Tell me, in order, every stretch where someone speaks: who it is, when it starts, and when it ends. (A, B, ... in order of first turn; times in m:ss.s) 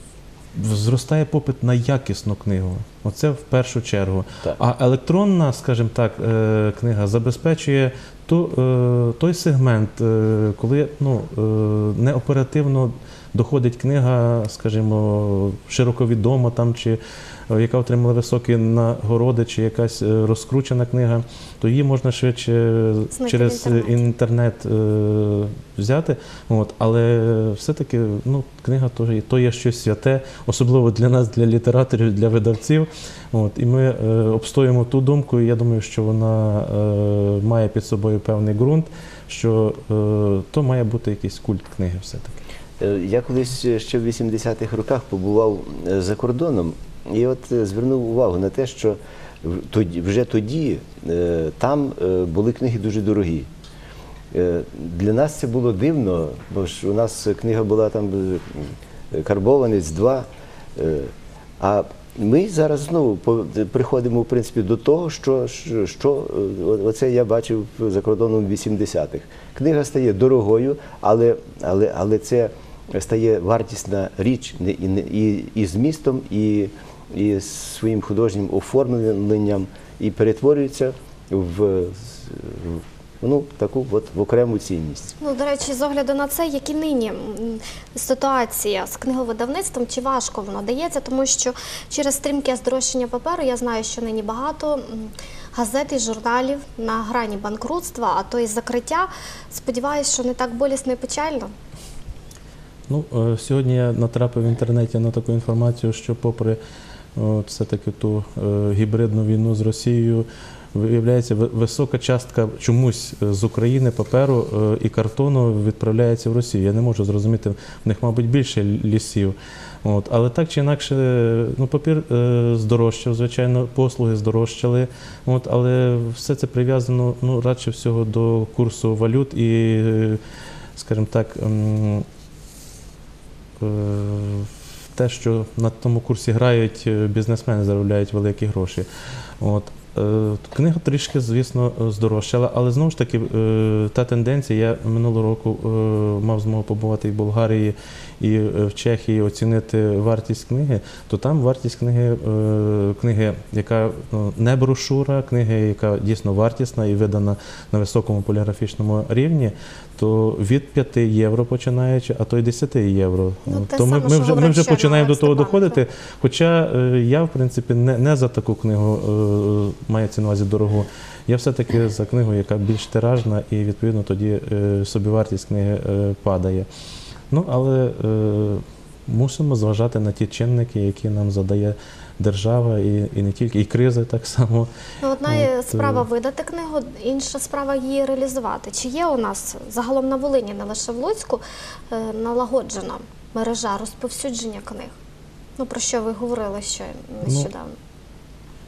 0:00.5-0:42.4 A
0:23.1-0:24.1 B
0:42.8-0:53.5 C
0:54.3-1:25.1 C
1:25.2-1:41.5 B
1:42.9-1:46.6 A
1:47.2-2:10.2 A
2:10.8-2:12.0 A
2:13.6-2:18.9 A
2:19.4-2:56.7 A
2:43.5-2:45.8 B
2:57.3-3:04.7 A
3:05.0-3:15.0 B
3:05.2-3:06.0 A
3:15.6-3:17.8 B